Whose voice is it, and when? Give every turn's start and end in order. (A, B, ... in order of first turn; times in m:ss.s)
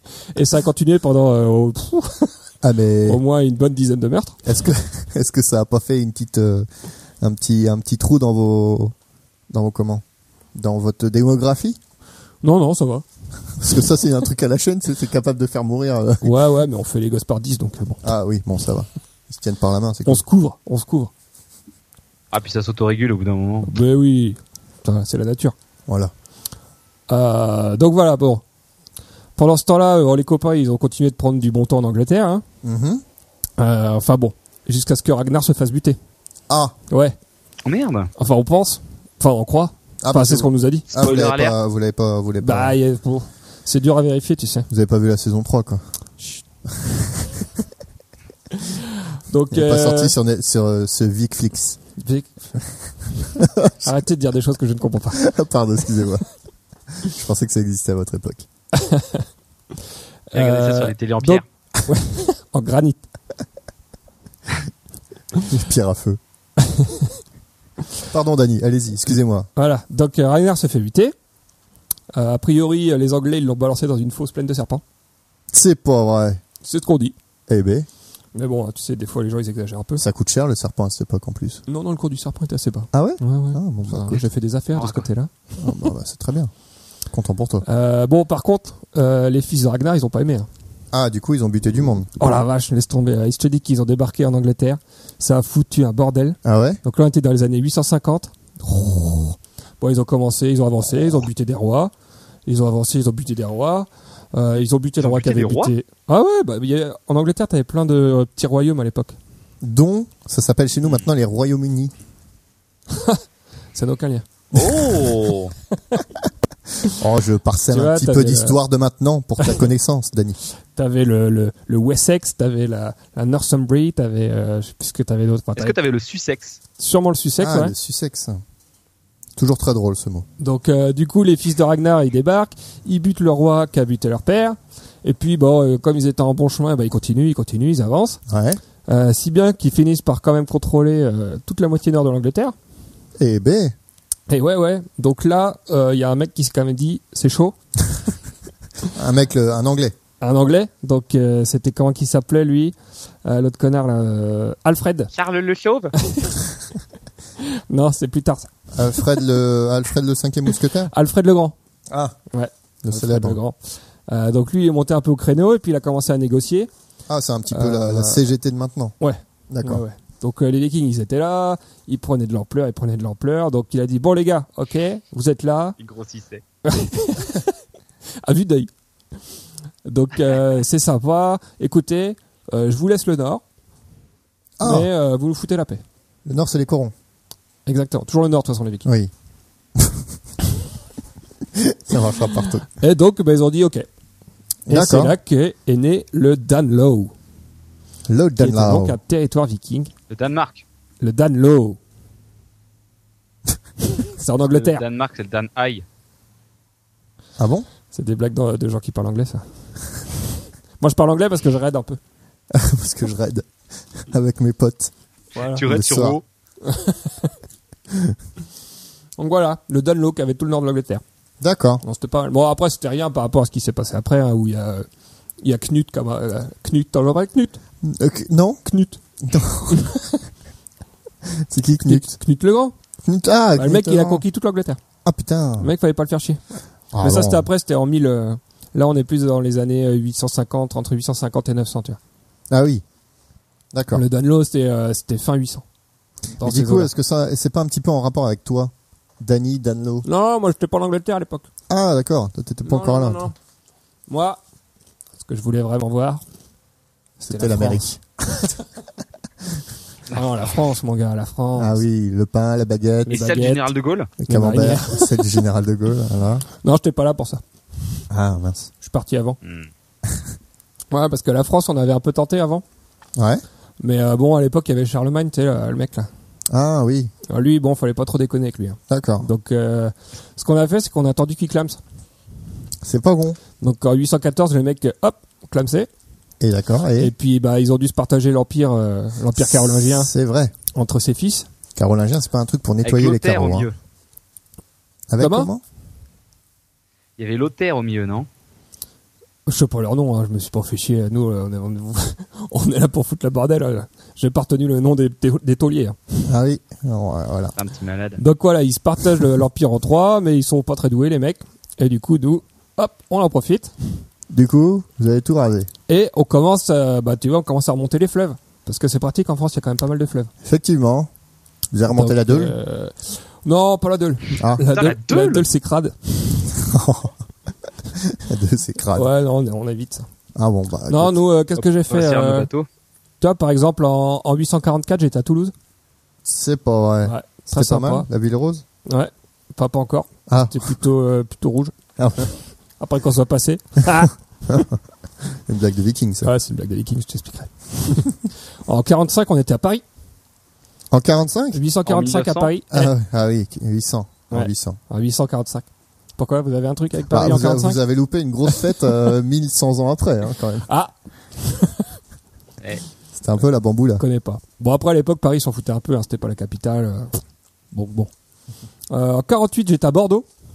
0:00.3-0:02.3 A
0:02.6-0:03.2 B
0:03.0-0:04.4 A
0:04.4-0:06.7 B
0:07.2-0:08.9 B
0:09.5-0:11.8 B
0:12.4-0:13.0 A
0:13.6-0:16.3 B
0:16.2-0:18.1 A
0:18.0-0:20.2 B
0:20.0-0:21.1 A
0:22.3-0:23.7 C
0:23.7-0:25.6 A
0:25.9-0:26.1 B
0:27.1-0:28.4 A
0:29.4-0:32.4 A
0:32.6-0:33.0 B
0:33.6-0:36.0 A
0:36.5-0:36.7 B
0:36.9-0:37.2 A
0:37.6-0:38.1 C
0:38.2-0:40.9 A
0:40.0-0:42.8 B
0:40.9-0:41.6 C
0:42.4-0:44.7 A
0:44.7-0:45.8 B
0:48.5-0:50.1 A
0:49.5-0:51.8 B
0:52.0-0:52.6 A
0:53.4-0:53.9 B
0:53.8-0:55.2 A
0:55.2-0:56.2 B
0:57.0-0:58.5 B
0:58.7-0:59.3 A
1:00.3-1:03.0 A
1:00.3-1:01.4 C
1:05.5-1:06.2 B
1:06.6-1:07.2 A
1:08.1-1:09.5 B
1:09.6-1:11.1 A
1:12.1-1:14.8 A
1:15.5-1:16.4 B
1:16.6-1:17.2 A
1:17.5-1:17.9 B
1:18.3-1:20.0 A
1:20.0-1:21.6 B
1:21.7-1:25.3 A
1:22.9-1:24.3 B
1:24.8-1:25.0 C
1:25.6-1:26.5 B
1:27.1-1:27.6 B
1:27.6-1:30.5 A
1:30.9-1:32.1 B
1:32.2-1:41.9 A
1:36.4-1:36.8 B
1:42.5-1:49.2 A
1:45.0-1:45.7 C
1:49.6-1:51.9 B
1:52.9-1:53.2 A
1:53.8-1:54.3 A
1:54.5-1:55.5 C
1:55.8-1:56.1 A
1:56.9-2:00.4 B
1:57.7-1:58.6 A
2:00.7-2:05.8 A
2:05.6-2:06.6 C
2:06.8-2:07.7 A
2:07.4-2:08.4 B
2:09.4-2:10.3 B
2:10.4-2:18.2 A
2:18.3-2:18.6 B
2:18.9-2:22.6 A
2:23.2-2:23.8 B
2:24.3-2:27.6 A
2:28.9-2:30.0 B
2:30.2-2:35.1 A
2:35.1-2:35.9 C
2:36.0-2:36.5 A
2:37.4-2:38.5 A
2:38.7-2:40.9 B
2:40.8-2:41.5 A
2:41.9-2:42.2 B
2:42.3-2:43.6 A
2:42.8-2:43.4 B
2:44.1-2:46.7 A
2:47.1-2:49.0 B
2:47.5-2:48.3 A
2:49.0-2:55.8 A
2:49.5-2:49.8 B
2:55.8-2:56.4 C
2:56.6-2:57.6 A
2:58.2-2:58.7 A
2:59.8-3:03.4 A
3:04.6-3:04.9 B
3:04.6-3:05.8 A
3:06.3-3:06.9 B
3:07.7-3:08.9 A
3:08.8-3:09.1 B
3:09.8-3:10.0 B
3:11.5-3:12.6 B
3:12.7-3:13.9 A
3:14.7-3:15.2 B
3:14.7-3:17.1 A
3:18.1-3:19.0 B
3:18.4-3:19.9 A
3:20.1-3:20.6 C
3:21.0-3:21.8 A
3:23.9-3:24.8 A
3:24.5-3:25.8 C
3:27.4-3:27.7 B
3:27.9-3:29.5 A
3:30.8-3:32.0 A
3:32.5-3:34.9 B
3:35.4-3:35.6 A
3:35.5-3:36.2 C
3:35.6-3:36.2 B
3:36.6-3:37.3 A
3:39.2-3:41.0 A
3:41.4-3:41.8 B
3:41.8-3:44.9 A
3:45.4-3:47.6 A
3:47.8-3:48.6 B
3:48.7-3:49.0 A
3:49.2-3:49.9 B
3:49.7-3:50.2 A
3:51.2-3:52.2 B
3:51.8-3:52.7 A
3:53.0-3:54.2 B
3:53.6-3:54.8 A
3:55.0-3:55.7 B
3:55.6-3:56.4 A
3:56.9-3:57.5 B
3:57.0-4:02.0 A
4:02.5-4:02.8 B
4:03.7-4:04.0 B
4:03.9-4:05.6 A
4:06.4-4:06.9 A
4:06.4-4:10.0 B
4:10.0-4:11.5 A
4:11.7-4:13.3 B
4:12.6-4:13.4 A
4:14.1-4:14.4 A
4:15.2-4:16.2 A
4:17.2-4:17.8 A
4:17.3-4:18.5 B
4:20.1-4:21.8 A
4:21.6-4:23.2 B
4:23.1-4:24.1 C
4:23.1-4:23.7 A
4:24.2-4:26.4 B
4:24.3-4:25.2 A
4:26.5-4:27.4 A
4:28.1-4:28.7 B
4:28.8-4:29.4 A
4:29.4-4:29.7 C
4:30.9-4:32.6 A
4:33.2-4:33.4 B
4:33.8-4:36.1 A
4:36.5-4:37.1 B
4:37.3-4:41.8 A
4:38.9-4:39.3 B
4:42.8-4:43.4 B
4:43.6-4:45.9 A
4:46.4-4:47.1 B
4:47.0-4:50.1 A
4:49.4-4:50.5 B
4:50.7-4:51.5 A
4:51.8-4:53.7 B
4:52.8-4:53.8 C
4:55.1-4:55.6 B
4:55.2-4:55.5 A
4:57.2-4:58.3 C
4:59.5-5:06.2 A
5:06.3-5:07.5 B
5:07.6-5:08.2 C
5:08.2-5:13.7 A
5:14.3-5:15.7 B
5:15.9-5:20.3 A
5:20.4-5:21.1 B
5:21.7-5:22.5 B
5:21.9-5:26.6 A
5:24.7-5:25.5 C
5:26.6-5:27.2 B
5:27.9-5:29.1 B
5:28.9-5:30.1 A
5:30.4-5:31.2 B
5:30.9-5:32.5 A
5:31.6-5:32.7 C
5:33.2-5:35.5 A
5:36.2-5:38.6 B
5:37.0-5:38.1 A
5:38.9-5:44.6 A
5:40.3-5:40.6 B
5:42.0-5:42.2 B
5:44.5-5:44.7 B
5:45.5-5:46.3 B
5:46.2-5:48.1 A
5:48.6-5:49.8 A
5:50.9-5:51.6 B
5:51.5-5:52.9 A
5:51.9-5:52.5 C
5:52.7-5:54.8 B
5:54.3-5:57.8 A
5:57.1-6:00.7 B
5:58.5-5:58.9 A
6:00.6-6:02.0 A
6:03.2-6:04.0 B
6:04.0-6:07.2 A
6:07.7-6:08.1 A
6:08.9-6:10.3 A